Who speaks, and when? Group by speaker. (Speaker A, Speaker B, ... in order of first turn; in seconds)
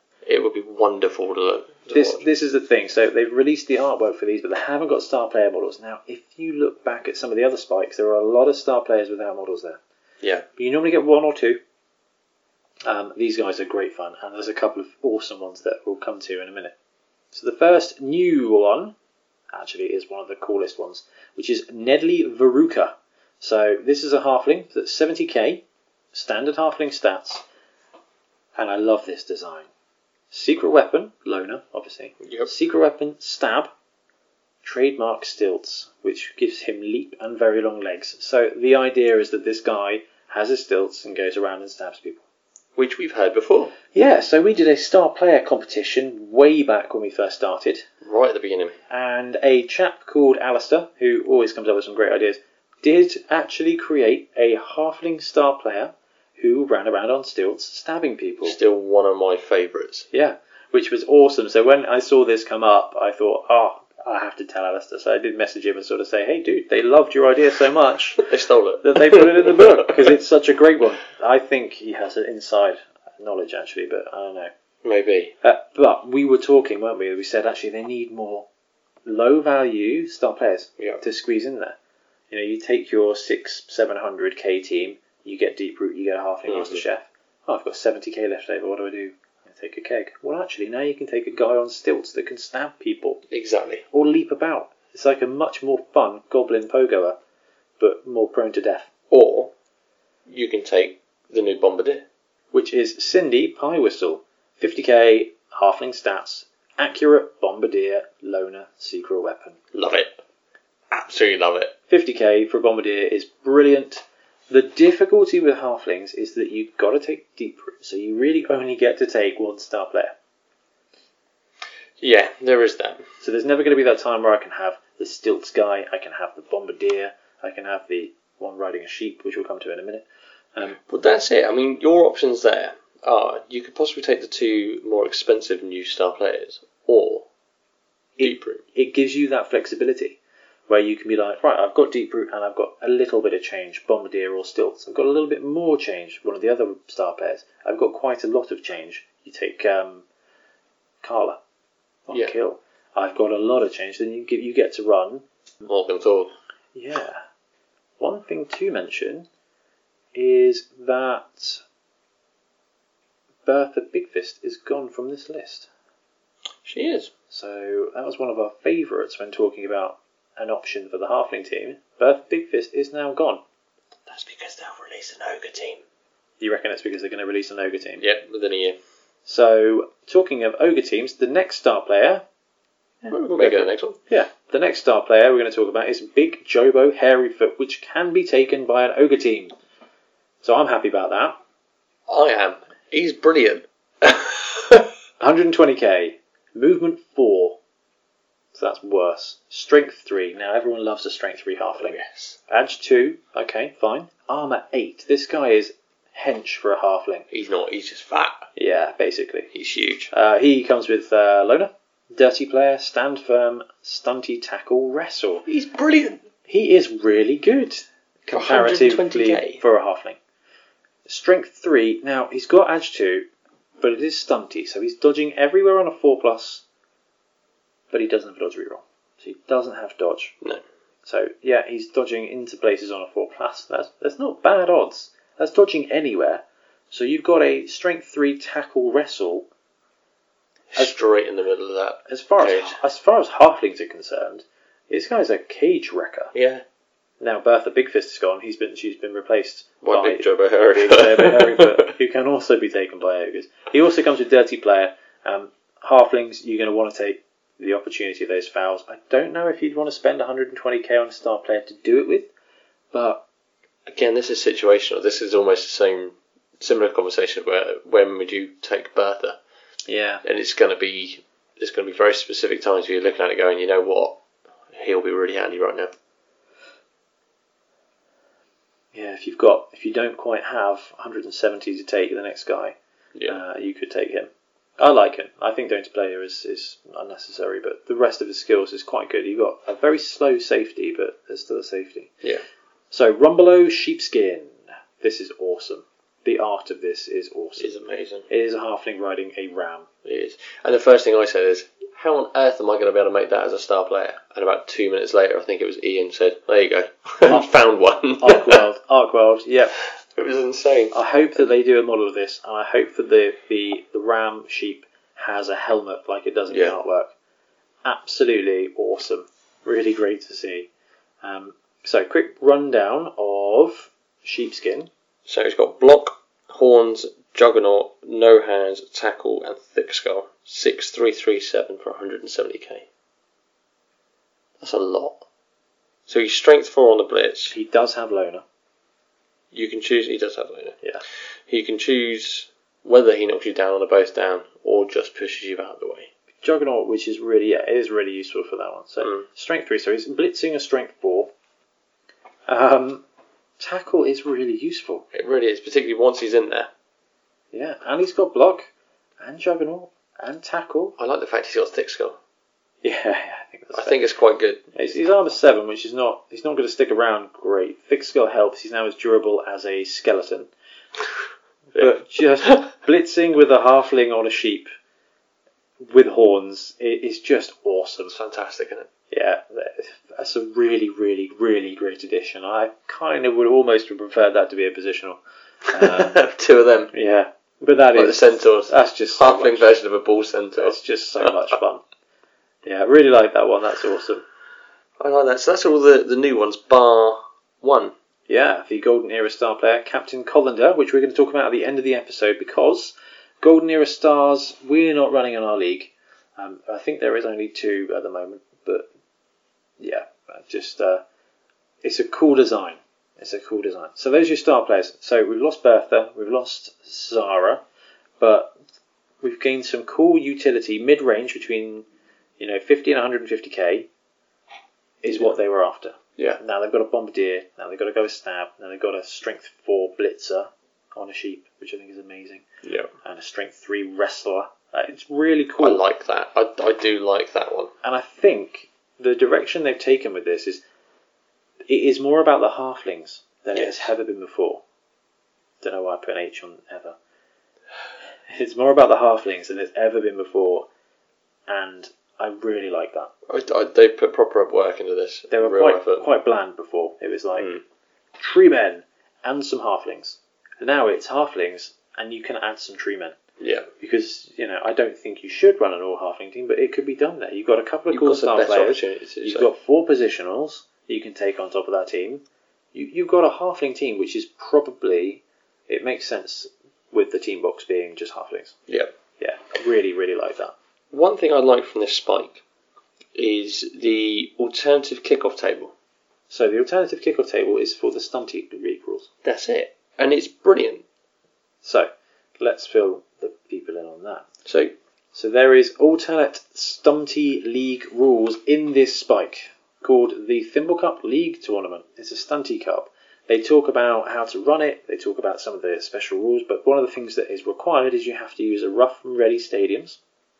Speaker A: 0.2-2.3, 32.2-32.5, 42.8-43.7, 48.0-48.8, 58.5-60.1, 68.2-69.9, 74.8-75.3, 80.8-81.0, 86.5-86.8, 93.3-93.8, 99.1-99.5, 100.3-102.0, 109.7-110.1, 110.9-111.7, 122.0-123.0, 130.8-137.3, 138.2-138.6, 155.6-156.3, 166.6-167.1, 174.1-175.8, 178.0-178.8, 183.1-184.0, 192.1-194.9, 201.8-202.4, 207.3-208.5, 209.5-210.1, 215.4-216.2, 218.3-219.6, 240.7-242.8, 246.3-246.6, 249.8-251.9, 263.9-269.4, 270.2-274.2, 274.7-275.9, 283.1-283.4, 297.6-298.3, 300.1-308.6, 309.8-311.0, 316.5-316.8, 325.3-332.9, 334.6-335.2, 336.1-337.5, 339.5-340.8, 341.5-346.1, 349.0-349.3, 355.1-356.7, 361.0-362.2, 363.7-364.8, 371.7-372.7, 378.1-378.9, 385.7-386.9, 387.9-391.5, 395.0-397.9, 432.6-432.9, 435.6-437.7, 443.5-443.9, 453.3-456.1, 457.4-457.6, 463.4-463.7, 467.9-469.5, 480.9-482.4, 483.1-485.7, 489.2-490.8, 494.4-494.7
Speaker B: 1.9-9.8, 10.6-11.6, 12.8-16.7, 17.3-18.9, 19.5-27.4, 28.6-29.7, 30.3-33.7, 34.6-42.2, 43.9-47.9, 48.9-58.6, 60.1-74.5, 75.4-78.5, 79.0-81.8, 82.3-93.2, 93.9-97.2, 97.8-98.9, 102.5-109.6, 111.9-120.2, 123.2-130.8, 138.2-150.1, 151.0-151.4, 152.1-155.3, 156.7-157.2, 158.0-159.3, 160.1-161.6, 163.4-165.7, 167.3-173.4, 176.4-178.0, 179.3-182.2, 183.0-189.5, 190.4-191.4, 195.2-197.6, 198.5-207.3, 208.6-209.5, 210.1-215.4, 216.4-220.2, 221.1-223.3, 223.8-226.6, 227.9-230.4, 231.1-239.5, 242.1-246.3, 247.2-262.3, 262.9-263.2, 269.9-270.2, 278.9-282.8, 283.3-292.1, 292.9-297.7, 298.3-299.9, 308.2-309.7, 310.9-317.1, 317.8-320.7, 321.2-324.9, 337.5-338.4, 346.4-351.3, 352.5-353.0, 353.6-355.1, 357.5-360.9, 362.8-364.0, 364.7-370.5, 371.7-374.7, 375.8-378.1, 379.1-386.1, 386.9-389.7, 390.6-391.8, 392.6-394.2, 398.3-408.9, 409.8-411.0, 411.8-417.6, 418.2-418.5, 419.2-421.9, 422.4-423.9, 425.0-432.4, 433.0-435.8, 437.8-440.6, 441.7-444.6, 445.6-446.9, 448.3-450.7, 451.5-453.1, 455.3-457.5, 458.2-463.1, 463.8-478.6, 479.2-480.5, 486.3-489.1, 491.6-494.3, 495.1-510.0